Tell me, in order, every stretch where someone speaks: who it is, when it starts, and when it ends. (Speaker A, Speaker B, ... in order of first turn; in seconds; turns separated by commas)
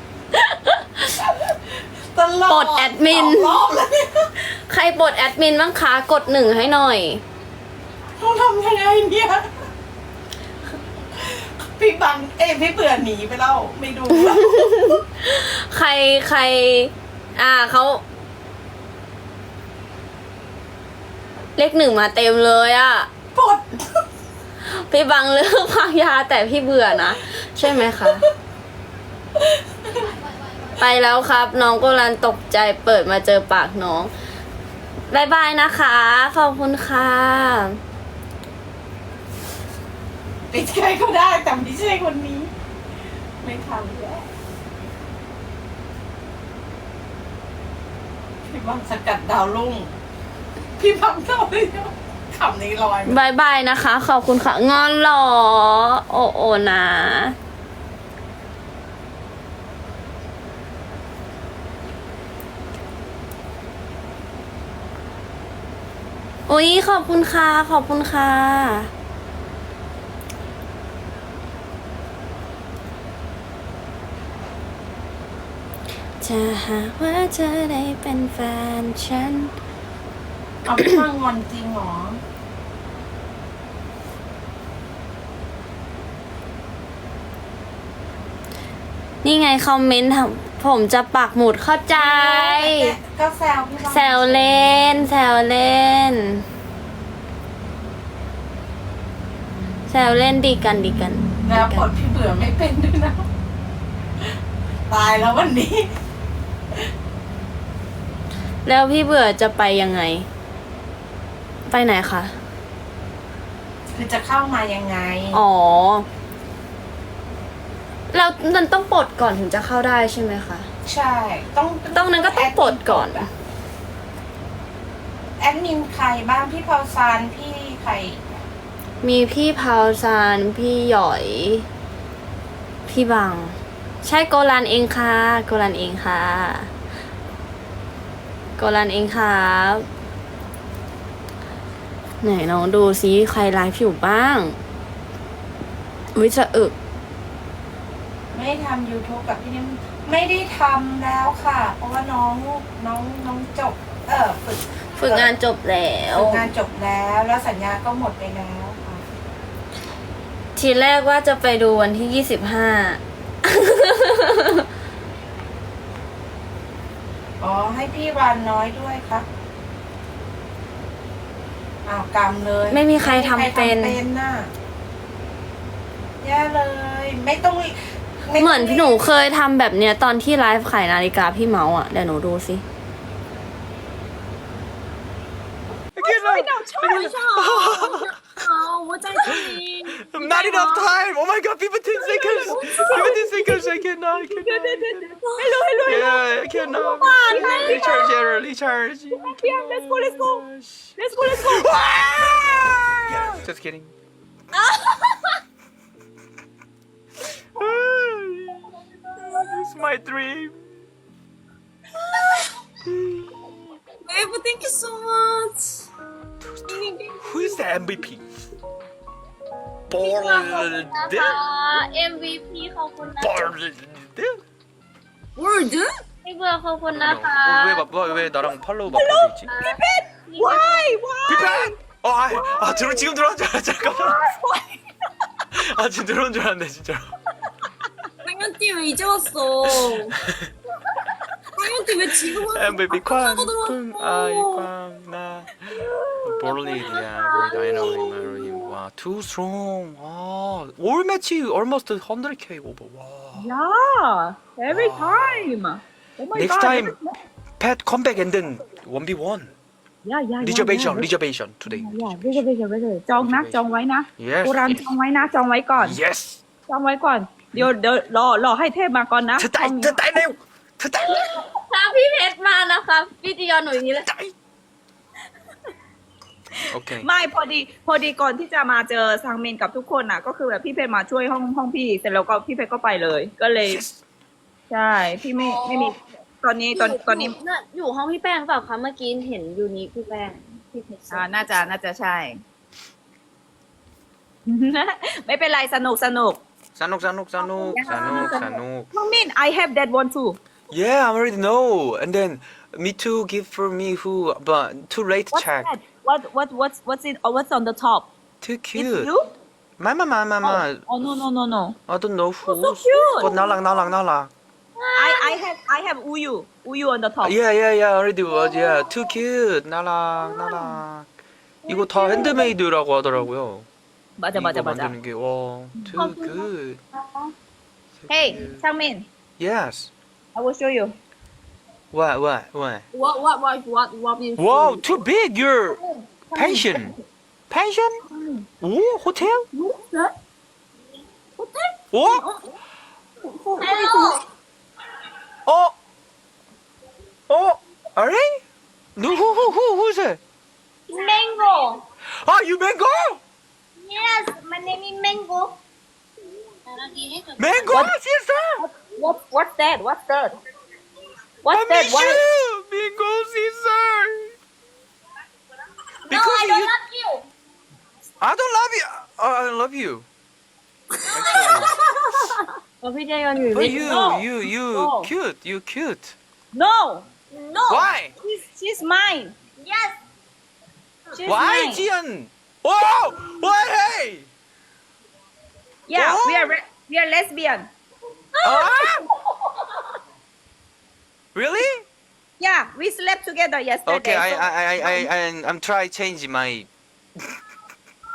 Speaker A: 0.3-1.1, Speaker B: 1.3-1.6, Speaker B: 2.1-4.3, Speaker A: 2.5-3.6, Speaker A: 4.7-7.2, Speaker B: 8.2-9.5, Speaker B: 11.1-15.0, Speaker A: 14.1-18.0, Speaker A: 21.6-23.1, Speaker B: 23.3-24.0, Speaker A: 24.6-28.2, Speaker B: 27.6-28.3, Speaker B: 29.4-30.1, Speaker A: 30.8-34.1, Speaker A: 35.1-37.8, Speaker B: 40.5-42.5, Speaker B: 43.4-44.3, Speaker B: 48.5-49.9, Speaker B: 50.8-53.2, Speaker A: 53.1-57.4, Speaker A: 66.5-68.9, Speaker A: 76.2-79.5, Speaker B: 80.6-82.2, Speaker A: 89.2-92.9, Speaker B: 91.9-94.9, Speaker A: 93.9-96.4, Speaker A: 99.9-101.8, Speaker B: 101.4-103.2, Speaker B: 104.9-105.9, Speaker A: 108.6-110.3, Speaker A: 111.7-112.3, Speaker B: 113.9-115.4, Speaker A: 115.3-116.0, Speaker A: 118.1-120.7, Speaker B: 120.8-123.3, Speaker A: 121.9-123.3, Speaker B: 125.4-128.3, Speaker A: 129.0-131.7, Speaker A: 132.9-136.7, Speaker A: 138.6-139.8, Speaker A: 142.2-144.6, Speaker A: 146.1-146.7, Speaker B: 148.3-155.3, Speaker A: 155.0-156.5, Speaker B: 156.1-159.0, Speaker A: 160.6-164.6, Speaker B: 167.4-169.2, Speaker B: 171.8-174.5, Speaker A: 172.7-174.0, Speaker B: 176.2-179.0, Speaker A: 178.4-182.6, Speaker C: 185.9-188.4, Speaker D: 186.0-187.6, Speaker E: 187.1-190.8, Speaker C: 189.2-195.1, Speaker E: 192.0-193.2, Speaker D: 192.3-198.3, Speaker C: 195.8-203.9, Speaker E: 197.3-198.0, Speaker D: 199.1-200.4, Speaker D: 201.0-201.7, Speaker C: 207.6-208.7, Speaker C: 209.2-210.7, Speaker C: 212.8-213.6, Speaker E: 214.1-215.8, Speaker C: 216.4-218.2, Speaker C: 219.9-221.4, Speaker A: 220.0-223.5, Speaker C: 223.2-224.4, Speaker E: 225.4-225.8, Speaker A: 226.2-227.9, Speaker C: 226.9-229.5, Speaker D: 228.9-231.7, Speaker A: 229.5-230.8, Speaker C: 231.3-234.2, Speaker D: 232.3-233.0, Speaker D: 233.8-234.8, Speaker C: 235.5-237.1, Speaker E: 238.2-240.1, Speaker C: 239.6-240.3, Speaker E: 241.6-244.6, Speaker D: 241.6-242.1, Speaker C: 242.2-253.5, Speaker D: 253.4-257.1, Speaker C: 254.7-255.5, Speaker C: 256.3-256.9, Speaker C: 257.6-259.5, Speaker D: 260.0-261.1, Speaker C: 260.4-262.4, Speaker D: 261.6-266.0, Speaker C: 263.2-263.6, Speaker C: 264.2-264.9, Speaker C: 265.8-266.4, Speaker D: 266.7-270.0, Speaker C: 269.4-271.2, Speaker A: 271.1-274.1, Speaker C: 276.7-277.1, Speaker D: 276.8-283.8, Speaker C: 283.6-283.9, Speaker D: 284.7-287.3, Speaker A: 285.4-285.9, Speaker A: 286.7-291.6, Speaker D: 291.1-292.4, Speaker D: 294.4-296.4, Speaker C: 296.8-298.9, Speaker D: 297.4-300.4, Speaker A: 298.1-298.3, Speaker C: 300.7-305.7, Speaker D: 305.3-308.1, Speaker C: 308.4-309.1, Speaker D: 308.7-309.3, Speaker C: 309.8-310.8, Speaker D: 310.4-311.8, Speaker C: 311.9-314.3, Speaker D: 312.4-313.4, Speaker A: 314.8-315.3, Speaker D: 314.9-317.4, Speaker C: 317.2-321.1, Speaker C: 321.7-323.7, Speaker D: 321.7-322.5, Speaker D: 324.2-324.9, Speaker C: 324.3-326.8, Speaker C: 328.0-328.6, Speaker D: 328.1-329.1, Speaker C: 329.4-329.9, Speaker D: 330.3-330.9, Speaker C: 331.9-332.8, Speaker D: 333.0-334.2, Speaker C: 334.4-336.9, Speaker D: 336.4-336.8, Speaker C: 337.5-338.0, Speaker D: 338.1-338.5, Speaker C: 338.6-339.4, Speaker D: 339.5-340.1, Speaker D: 341.4-342.4, Speaker C: 341.9-342.2, Speaker D: 343.4-344.2, Speaker E: 343.8-344.2, Speaker C: 345.4-345.7, Speaker C: 347.3-348.4, Speaker C: 348.9-350.2, Speaker D: 350.9-351.8, Speaker E: 350.9-351.7, Speaker C: 352.1-353.2, Speaker D: 353.9-355.5, Speaker E: 353.9-355.4, Speaker E: 356.7-357.4, Speaker C: 357.4-358.6, Speaker D: 357.7-357.9, Speaker D: 358.6-360.4, Speaker D: 361.4-362.2, Speaker C: 361.5-364.3, Speaker C: 366.1-366.8, Speaker E: 366.1-367.2, Speaker C: 368.2-370.1, Speaker C: 371.1-372.3, Speaker E: 371.4-371.6, Speaker A: 372.9-373.2, Speaker E: 372.9-374.2, Speaker D: 373.5-375.1, Speaker C: 373.5-376.1, Speaker D: 376.5-379.4, Speaker E: 377.3-377.8, Speaker C: 377.7-378.1, Speaker E: 379.6-379.9, Speaker D: 381.1-381.9, Speaker C: 381.2-384.3, Speaker D: 385.9-387.7, Speaker C: 385.9-386.5, Speaker C: 388.4-389.1, Speaker C: 391.3-391.8, Speaker D: 392.4-395.1, Speaker C: 393.8-396.7